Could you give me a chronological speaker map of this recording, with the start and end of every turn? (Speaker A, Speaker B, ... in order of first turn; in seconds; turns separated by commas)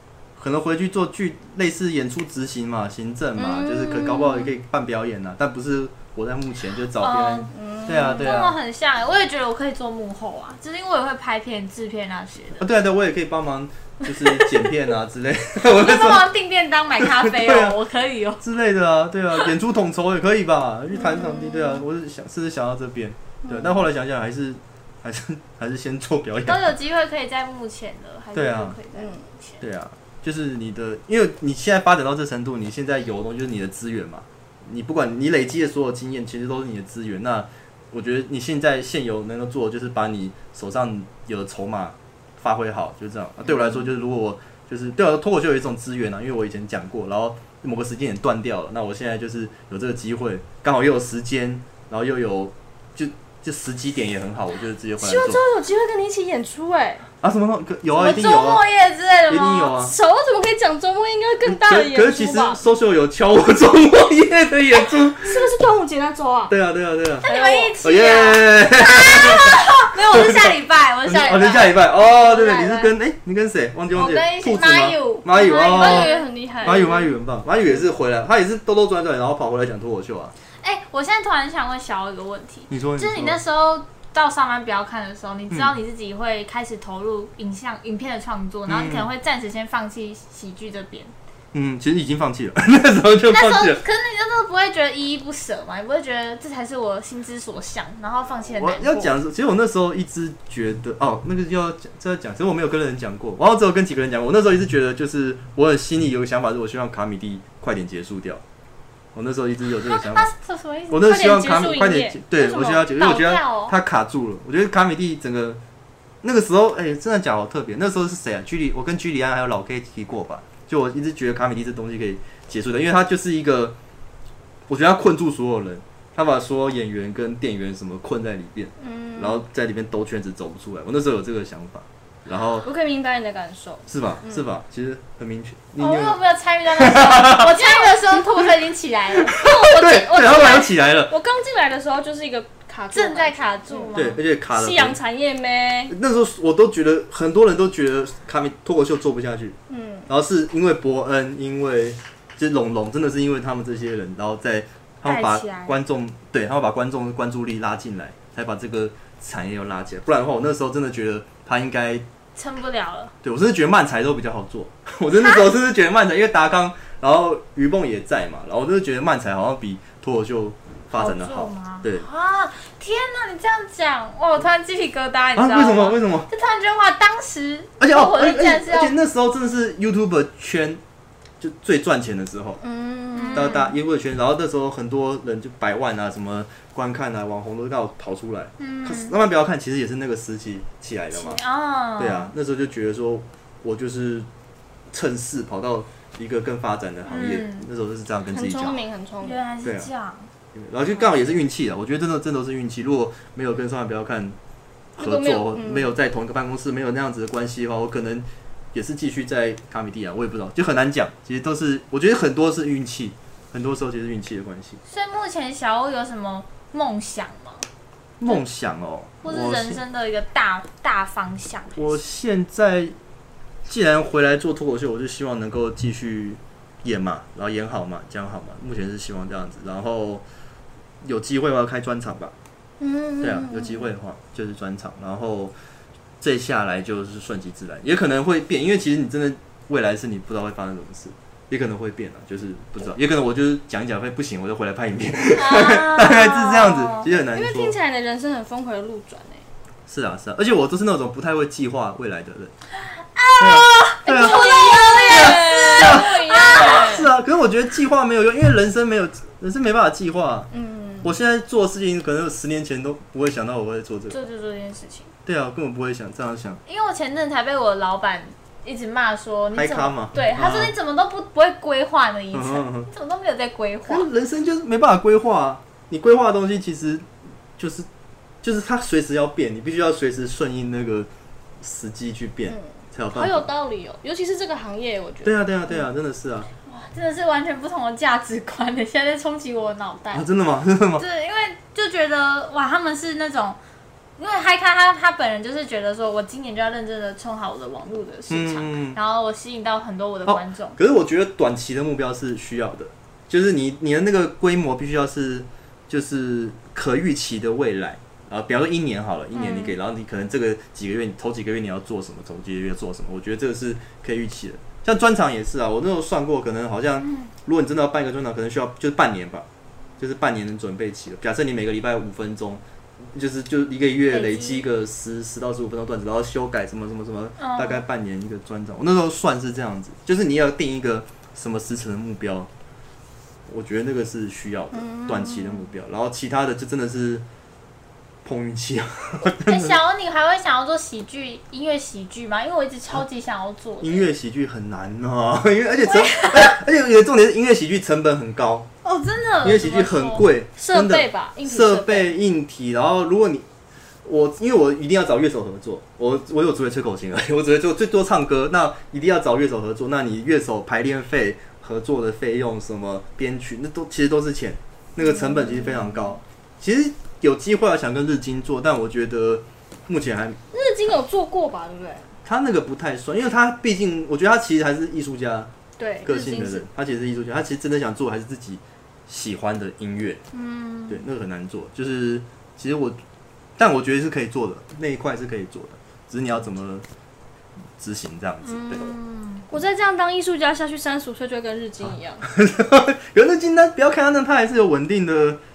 Speaker A: 0.4-8.6, Speaker B: 3.4-4.5, Speaker C: 7.0-12.7, Speaker B: 7.5-8.4, Speaker A: 12.6-16.3, Speaker C: 14.1-14.8, Speaker C: 15.6-18.4, Speaker A: 17.0-17.8, Speaker A: 18.4-26.7, Speaker B: 21.0-21.8, Speaker B: 23.4-23.8, Speaker C: 26.4-29.6, Speaker A: 28.3-28.8, Speaker B: 28.9-29.2, Speaker A: 29.6-55.4, Speaker B: 55.0-57.0, Speaker A: 57.2-58.6, Speaker C: 57.9-59.7, Speaker A: 59.3-59.9, Speaker B: 59.8-62.6, Speaker A: 61.4-65.5, Speaker B: 65.1-66.5, Speaker A: 66.5-67.3, Speaker B: 67.2-67.7, Speaker C: 67.2-72.9, Speaker A: 67.8-80.3, Speaker C: 73.9-77.0, Speaker B: 75.4-77.1, Speaker C: 80.6-91.1, Speaker A: 82.7-83.4, Speaker A: 88.7-89.1, Speaker A: 91.5-93.8, Speaker C: 93.3-99.1, Speaker A: 98.5-108.4, Speaker A: 109.1-110.3, Speaker C: 109.8-111.0, Speaker A: 110.9-115.6, Speaker B: 110.9-112.9, Speaker C: 112.9-113.8, Speaker A: 116.2-123.7, Speaker A: 124.7-132.7, Speaker B: 128.8-129.4, Speaker B: 132.6-134.4, Speaker A: 133.9-136.2, Speaker C: 135.8-139.4, Speaker A: 136.7-137.7, Speaker B: 139.3-145.9, Speaker A: 139.3-141.1, Speaker C: 142.9-144.2, Speaker A: 143.9-145.0, Speaker A: 145.9-149.6, Speaker B: 149.7-150.1, Speaker A: 150.1-162.0, Speaker C: 155.0-155.8, Speaker C: 162.3-163.1, Speaker A: 163.2-172.1, Speaker C: 165.1-165.5, Speaker C: 170.9-178.9, Speaker A: 175.3-176.3, Speaker A: 177.8-180.8, Speaker A: 181.4-182.6, Speaker B: 182.6-183.6, Speaker C: 183.1-183.7, Speaker A: 183.3-191.4, Speaker C: 188.6-189.1, Speaker C: 191.1-192.3, Speaker A: 192.0-194.3, Speaker A: 194.9-198.8, Speaker C: 197.1-197.7, Speaker B: 198.3-199.4, Speaker C: 199.2-200.3, Speaker A: 199.6-199.9, Speaker A: 200.5-204.4, Speaker A: 205.0-214.8, Speaker B: 205.0-205.9, Speaker C: 214.8-217.7, Speaker A: 218.2-219.8, Speaker C: 219.2-222.0, Speaker A: 221.8-222.9, Speaker A: 223.7-230.2, Speaker A: 231.0-232.3, Speaker B: 232.8-233.9, Speaker A: 233.2-235.5, Speaker A: 236.2-247.8, Speaker C: 245.3-247.1, Speaker B: 247.3-249.4, Speaker A: 249.9-252.5, Speaker C: 253.0-257.0, Speaker A: 253.4-260.5, Speaker B: 253.4-257.1, Speaker B: 260.5-261.1, Speaker A: 261.0-264.2, Speaker C: 264.1-265.1, Speaker A: 265.2-266.6, Speaker C: 266.7-274.1, Speaker A: 269.5-270.7, Speaker A: 272.3-272.9, Speaker A: 273.9-277.9, Speaker A: 278.4-281.1, Speaker A: 281.6-283.5, Speaker B: 282.5-285.4, Speaker A: 285.2-286.5, Speaker C: 286.7-290.2, Speaker A: 290.1-291.0, Speaker C: 291.0-293.6, Speaker C: 294.2-300.8, Speaker A: 298.3-299.0, Speaker A: 300.2-319.4, Speaker C: 309.3-309.7, Speaker C: 317.0-317.3, Speaker A: 320.0-322.6, Speaker A: 323.1-332.5, Speaker C: 324.1-324.6, Speaker C: 327.4-327.8, Speaker A: 333.5-337.2, Speaker B: 334.7-335.7, Speaker A: 338.2-339.8, Speaker C: 339.4-344.1, Speaker A: 343.8-348.7, Speaker C: 345.8-346.6, Speaker C: 348.8-350.3, Speaker A: 349.4-353.5, Speaker B: 350.6-352.1, Speaker A: 354.0-370.4, Speaker C: 365.6-365.9, Speaker B: 370.5-372.1, Speaker A: 372.2-375.5, Speaker B: 375.8-376.6, Speaker A: 376.0-380.2, Speaker C: 380.3-381.0, Speaker A: 380.9-383.0, Speaker A: 383.6-386.9, Speaker A: 387.8-388.9, Speaker C: 388.4-389.5, Speaker B: 389.5-392.2, Speaker A: 391.8-395.4